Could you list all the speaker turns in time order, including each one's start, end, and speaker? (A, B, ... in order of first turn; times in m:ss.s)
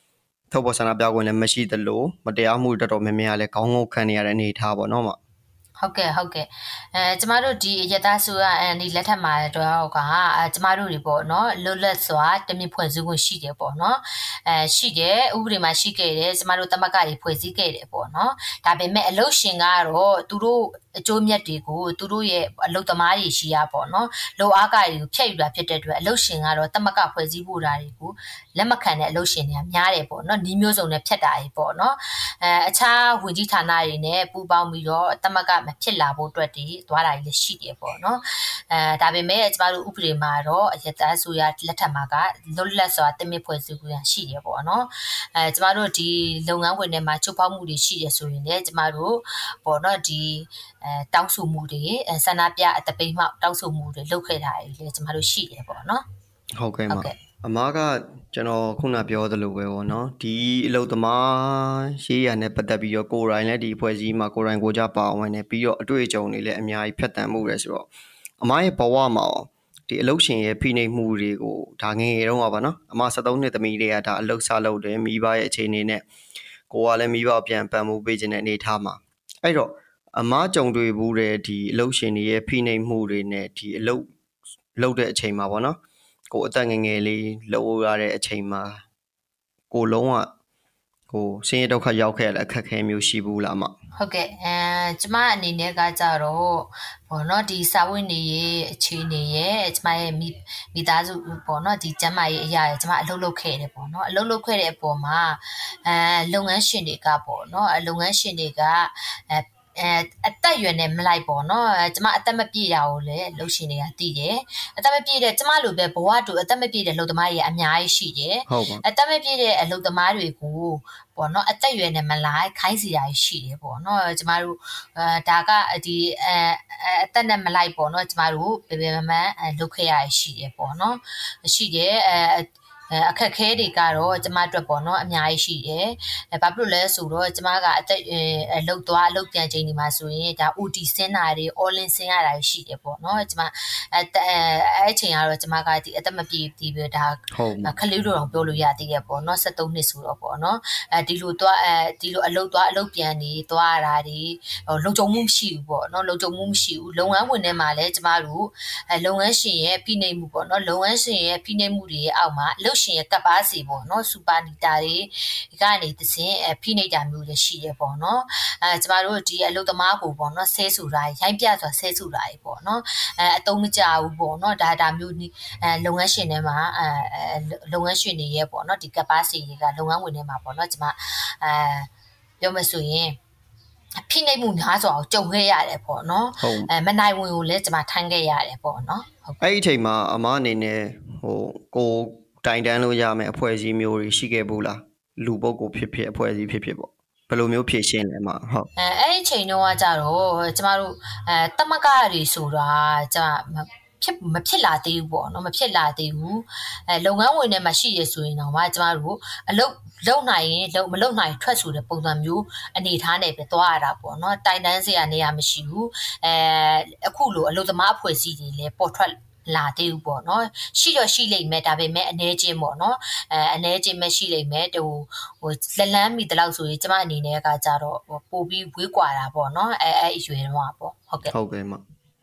0:00.5-0:05.2 A
0:05.8-0:56.0 B
0:56.6-1:07.9 A
0:56.9-0:57.1 B
1:08.4-1:16.0 A
1:16.7-1:24.0 A
1:24.8-1:25.8 A
1:26.3-1:28.8 A
1:29.7-1:30.3 A
1:31.1-1:33.8 A
1:34.0-3:01.9 B
1:58.5-1:58.8 A
2:27.3-2:27.7 A
3:02.4-3:03.2 B
3:04.1-3:09.4 B
3:06.4-3:06.7 A
3:09.4-3:18.7 A
3:18.8-3:51.3 B
3:51.3-3:51.8 A